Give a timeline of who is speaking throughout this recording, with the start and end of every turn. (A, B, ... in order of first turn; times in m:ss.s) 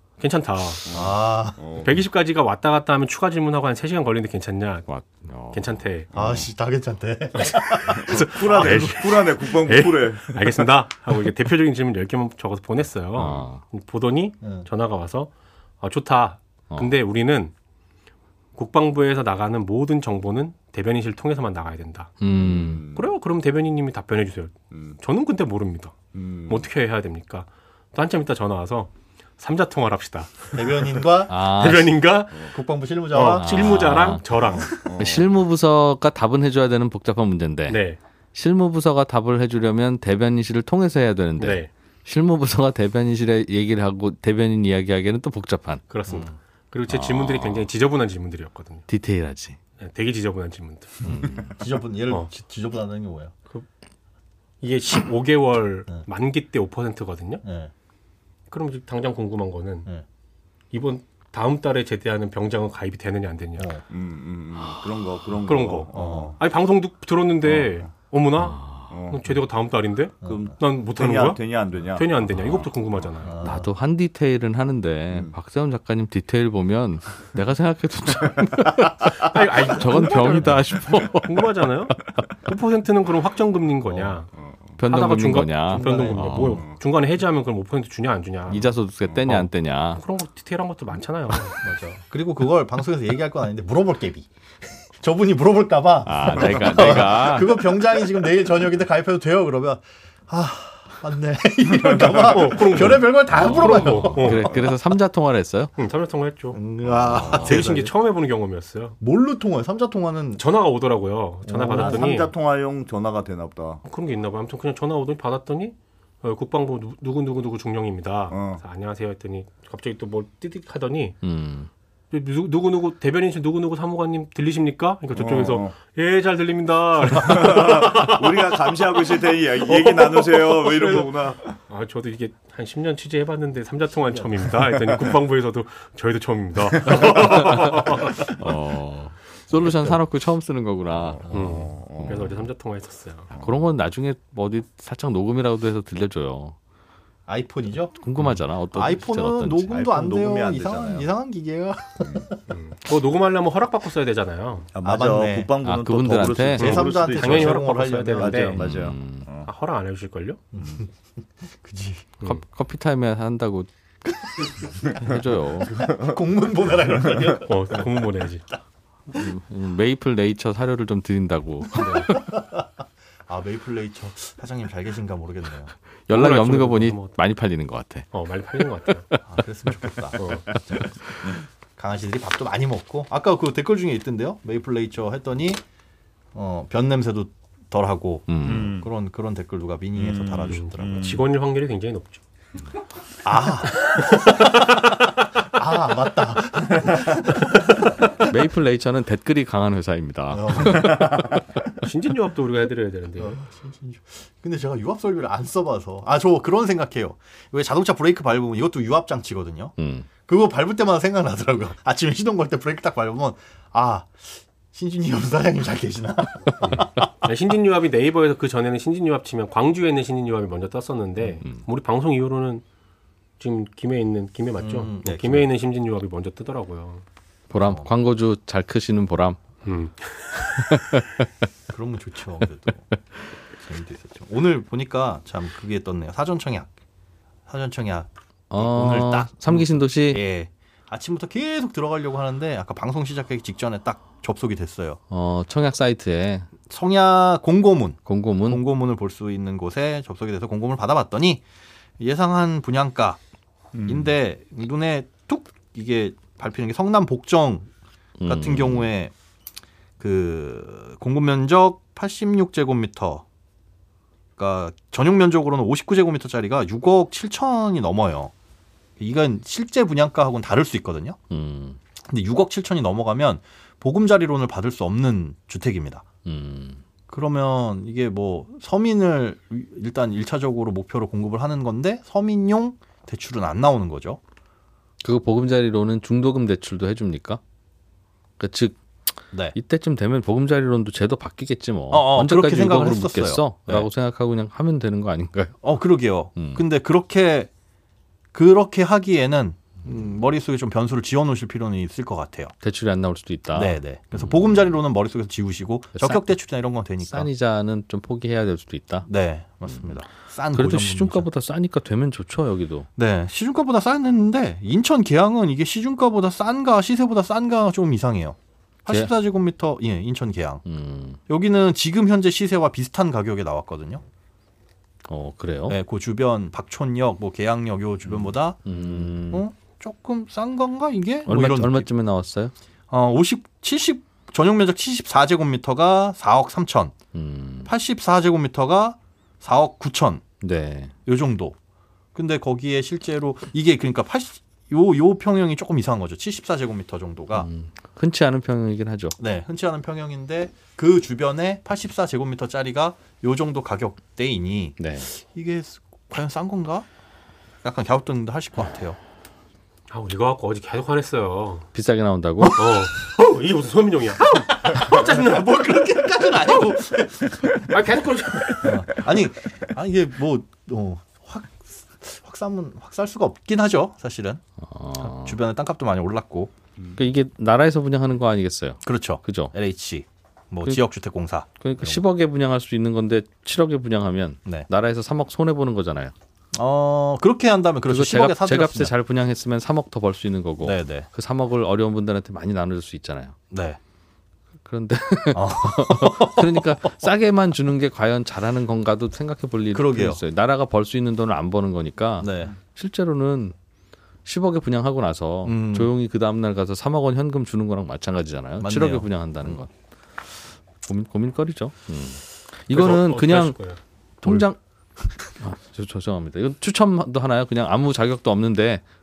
0:00.2-0:00.9 A
0:00.8-0:02.0 B
0:00.9-0:01.6 C
0:01.8-0:04.9 A
0:04.9-0:05.7 D
0:05.5-0:06.1 A
0:06.1-0:08.9 C
0:06.1-0:06.4 B
0:07.4-0:17.5 A
0:07.9-0:10.7 B
0:13.2-0:13.6 D
0:14.4-0:14.7 C
0:18.6-0:22.2 A
0:22.2-0:22.8 D
0:22.3-0:23.1 B
0:23.0-0:32.6 A
0:24.7-0:25.0 B
0:26.1-0:26.7 B
0:30.5-0:31.4 C
0:31.3-0:32.0 D
0:32.5-0:33.8 C
0:33.1-0:34.8 A
0:33.4-0:34.2 D
0:34.5-0:34.9 C
0:34.6-0:35.3 B
0:34.8-0:37.8 D
0:37.7-0:38.0 A
0:38.3-0:45.8 D
0:41.4-0:41.7 A
0:45.9-0:48.9 A
0:46.1-0:46.3 C
0:46.9-0:47.7 D
0:48.9-0:49.6 D
0:49.8-0:51.0 A
0:51.0-0:51.5 D
0:51.4-0:53.3 C
0:54.6-0:57.4 A
0:57.4-0:57.7 C
0:58.5-0:59.9 A
1:00.7-1:03.7 A
1:03.9-1:06.4 B
1:05.4-1:11.4 A
1:05.9-1:06.4 C
1:07.4-1:07.9 B
1:08.4-1:08.9 D
1:08.9-1:09.2 B
1:10.2-1:10.5 C
1:10.2-1:13.3 B
1:11.9-1:13.4 A
1:13.2-1:13.7 C
1:13.4-1:21.3 D
1:19.2-1:20.6 A
1:21.2-1:24.3 A
1:23.9-1:24.8 B
1:24.8-1:26.6 D
1:24.9-1:28.7 A
1:25.7-1:26.4 C
1:26.4-1:26.8 B
1:28.5-1:30.0 D
1:29.3-1:31.6 A
1:31.6-1:34.3 C
1:35.0-1:44.6 C
1:36.0-1:37.7 D
1:41.7-1:42.7 B
1:41.8-1:44.5 A
1:43.4-1:44.2 B
1:44.1-1:45.7 D
1:45.8-1:46.6 A
1:46.5-1:47.9 C
1:47.1-1:47.6 D
1:47.3-1:49.0 A
1:49.0-1:50.4 C
1:50.4-1:52.3 A
1:51.5-1:52.1 C
1:51.6-1:53.8 B
1:53.8-2:01.2 A
1:58.3-1:58.6 B
2:01.2-2:01.7 D
2:02.1-2:11.1 A
2:05.2-2:05.7 B
2:07.1-2:11.6 B
2:11.7-2:18.3 A
2:16.8-2:17.3 B
2:17.3-2:17.8 D
2:18.4-2:21.3 D
2:19.6-2:19.9 A
2:21.0-2:22.5 B
2:21.3-2:23.3 A
2:23.3-2:23.7 B
2:23.4-2:26.6 D
2:27.3-2:28.0 C
2:28.0-2:29.7 D
2:28.7-2:32.4 C
2:29.7-2:31.1 B
2:32.0-2:32.3 B
2:32.5-2:34.7 A
2:34.7-2:39.5 B
2:34.8-2:35.5 C
2:35.6-2:36.8 D
2:36.5-2:38.6 C
2:36.6-2:38.6 A
2:38.6-2:39.3 D
2:39.5-2:40.4 A
2:40.5-2:40.9 C
2:41.4-2:42.1 C
2:42.2-2:43.7 D
2:44.4-2:44.7 C
2:45.0-2:45.8 D
2:45.6-2:48.0 C
2:47.5-2:48.4 A
2:49.2-2:51.8 D
2:51.7-2:52.1 A
2:51.8-2:52.7 C
2:53.3-2:55.7 C
2:56.1-2:58.1 D
2:56.1-2:57.2 A
2:58.1-2:59.0 A
2:59.3-3:00.9 C
3:00.2-3:00.5 A
3:01.8-3:05.6 C
3:06.3-3:11.2 C
3:08.3-3:08.8 D
3:08.5-3:08.9 B
3:10.0-3:11.2 B
3:10.5-3:12.2 A
3:13.2-3:14.7 C
3:15.4-3:18.1 C
3:18.3-3:21.1 D
3:20.3-3:21.1 C
3:21.8-3:23.4 A
3:23.2-3:29.8 C
3:29.8-3:30.1 D
3:30.3-3:37.1 C
3:36.6-3:42.6 A
3:43.4-3:47.0 A
3:44.6-3:45.5 C
3:47.5-3:49.4 D
3:47.6-3:47.9 C
3:49.6-3:50.8 A
3:50.5-3:51.3 D
3:51.7-3:52.9 C
3:53.6-3:56.7 C
3:57.5-4:05.0 C
3:58.5-4:00.2 D
4:05.1-4:06.5 D
4:06.7-4:11.4 C
4:08.1-4:08.6 D
4:12.0-4:13.2 C
4:13.7-4:14.1 B
4:13.9-4:17.7 C
4:18.2-4:18.9 D
4:18.2-4:19.1 C
4:20.0-4:23.2 C
4:24.4-4:28.3 C
4:29.0-4:31.2 C
4:31.3-4:31.8 D
4:32.1-4:36.0 C
4:36.2-4:36.8 D
4:37.1-4:44.2 C
4:45.0-4:47.4 D
4:48.4-4:55.6 D
4:51.9-4:53.9 C
4:55.6-4:57.5 C
4:56.4-4:56.6 D
4:58.3-5:02.5 C
5:02.6-5:04.4 D
5:03.5-5:07.3 C
5:06.0-5:06.2 D
5:07.0-5:09.1 D
5:09.1-5:11.3 C
5:10.5-5:12.9 D
5:13.0-5:20.6 C
5:20.6-5:21.2 D
5:21.3-5:24.0 C
5:25.1-5:25.8 D
5:25.7-5:31.9 C
5:28.7-5:29.4 D
5:31.3-5:32.5 D
5:32.9-5:37.0 C
5:37.1-5:37.7 D
5:37.7-5:40.2 C
5:40.4-5:40.9 D
5:41.1-5:41.6 C
5:42.2-5:47.5 C
5:47.3-5:49.2 D
5:49.2-5:56.9 C
5:54.8-5:55.1 D
5:57.6-5:59.0 C
5:59.9-6:01.7 A
6:01.7-6:02.6 D
6:02.4-6:02.7 C
6:02.6-6:09.0 A
6:04.3-6:07.5 C
6:08.6-6:14.4 C
6:14.6-6:15.4 D
6:15.0-6:16.5 C
6:17.0-6:19.5 D
6:18.8-6:22.0 C
6:21.6-6:26.1 D
6:26.5-6:28.9 C
6:27.9-6:33.4 D
6:30.6-6:31.1 C
6:33.5-6:33.8 C
6:34.6-6:43.6 D
6:35.3-6:36.9 C
6:39.7-6:40.2 C
6:42.2-6:42.6 C
6:44.2-6:49.7 D
6:45.5-6:45.9 C
6:48.6-6:49.5 C
6:50.8-6:53.6 D
6:52.7-6:53.8 A
6:54.2-6:54.6 D
6:55.4-6:58.8 D